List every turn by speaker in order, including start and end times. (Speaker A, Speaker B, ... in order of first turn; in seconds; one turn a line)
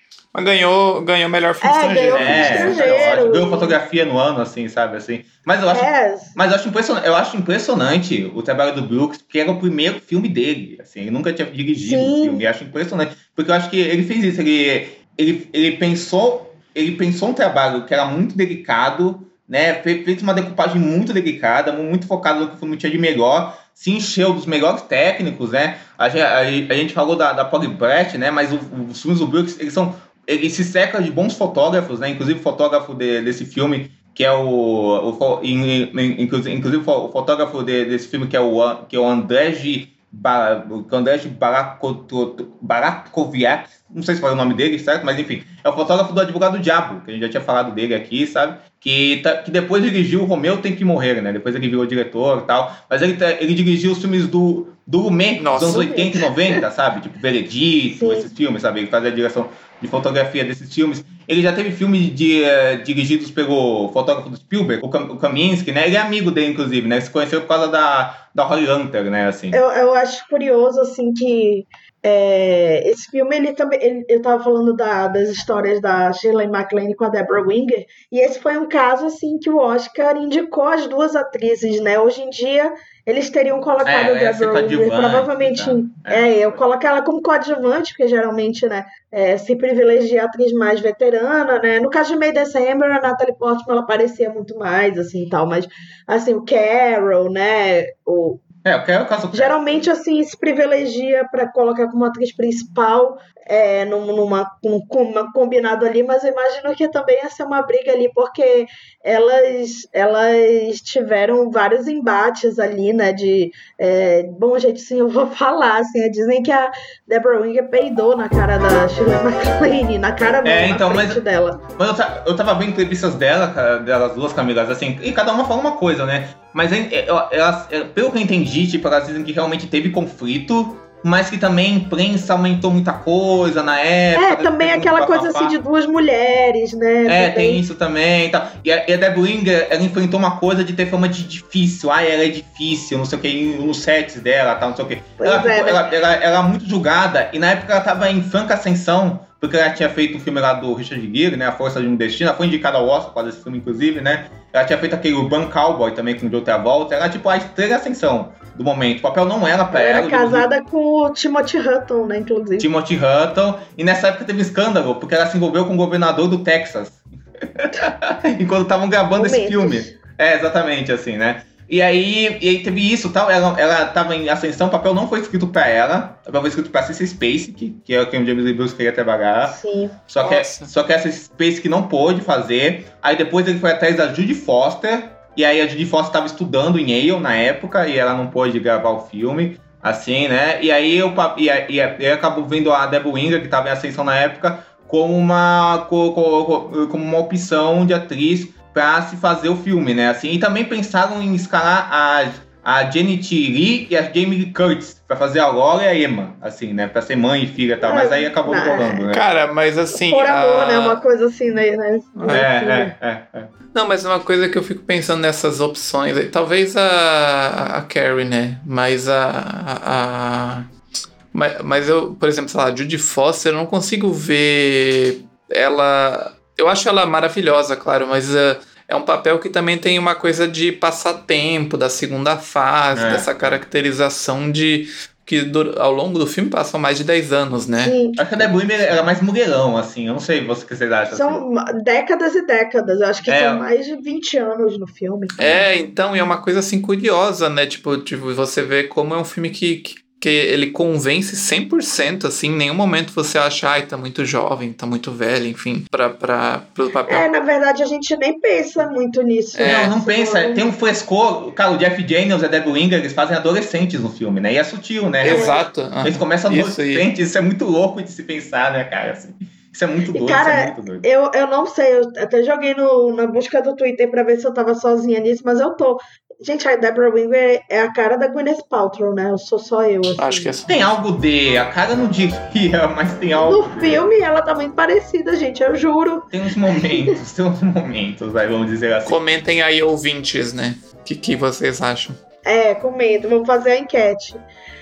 Speaker A: 0.3-3.1
Speaker B: 1.6-3.8
Speaker C: 2.1-69.6
Speaker B: 5.7-6.3
Speaker B: 11.8-12.5
Speaker A: 55.4-55.9
Speaker B: 55.7-56.6
Speaker B: 57.9-58.3
Speaker B: 69.5-98.4
Speaker C: 83.8-86.6
Speaker C: 98.6-99.9
Speaker B: 99.3-121.6
Speaker C: 120.4-121.2
Speaker C: 121.8-135.5
Speaker B: 134.1-137.6
Speaker C: 137.1-160.5
Speaker B: 145.2-145.8
Speaker B: 159.7-162.7
Speaker C: 162.6-179.6
Speaker B: 169.1-169.9
Speaker B: 179.4-179.9
Speaker C: 180.1-209.2
Speaker A: 180.2-180.7
Speaker B: 207.8-209.1
Speaker A: 209.1-211.0
Speaker B: 209.9-212.9
Speaker A: 212.2-212.4
Speaker C: 212.3-213.5
Speaker A: 213.7-220.7
Speaker A: 221.3-237.9
Speaker C: 232.9-233.6
Speaker B: 237.8-238.2
Speaker C: 238.2-241.4
Speaker B: 241.1-245.4
Speaker C: 243.3-243.6
Speaker C: 245.4-245.6
Speaker A: 245.4-257.3
Speaker B: 257.1-260.6
Speaker A: 259.5-259.9
Speaker C: 259.6-271.1
Speaker A: 265.2-267.1
Speaker B: 265.3-265.6
Speaker B: 270.1-280.5
Speaker A: 280.2-280.8
Speaker C: 280.7-284.0
Speaker B: 283.3-287.1
Speaker C: 286.3-289.2
Speaker A: 289.1-292.2
Speaker B: 292.4-294.4